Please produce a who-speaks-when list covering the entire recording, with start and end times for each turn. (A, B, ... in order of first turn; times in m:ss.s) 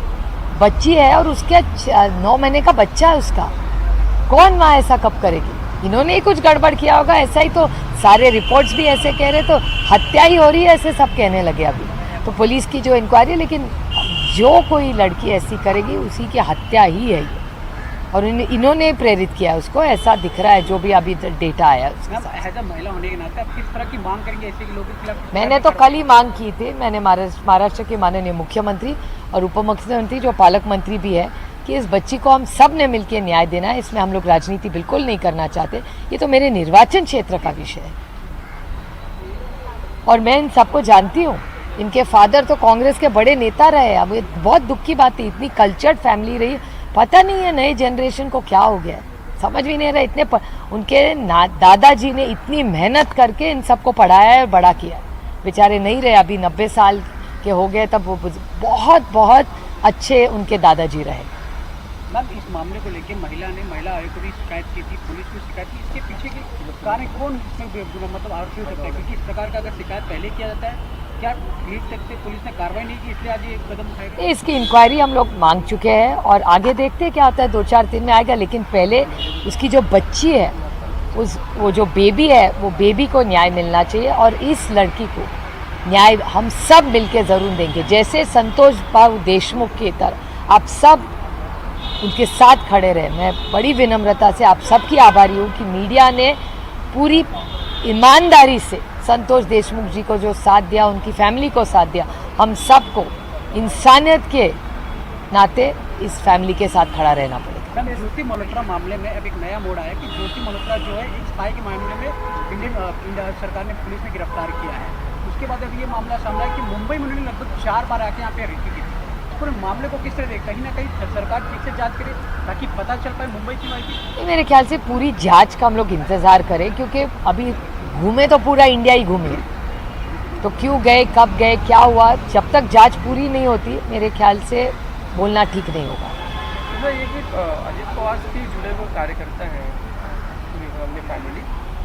0:00.5-0:03.5 A
0:04.3-0:17.4 A
0:18.1-0:22.4 A
0:22.1-0:26.0 B
0:25.3-0:38.0 A
0:40.1-1:01.3 A
1:02.1-1:14.2 B
1:06.6-1:07.1 C
1:08.7-1:09.1 C
1:14.2-1:20.5 A
1:21.1-1:25.3 A
1:25.9-1:31.1 A
1:32.0-1:36.4 A
1:36.9-1:37.3 A
1:37.8-1:44.6 A
1:45.3-1:47.8 A
1:47.7-2:04.0 B
1:48.0-1:48.7 C
2:04.2-2:09.4 A
2:10.4-2:16.1 A
2:16.7-2:19.8 C
2:20.5-2:21.5 C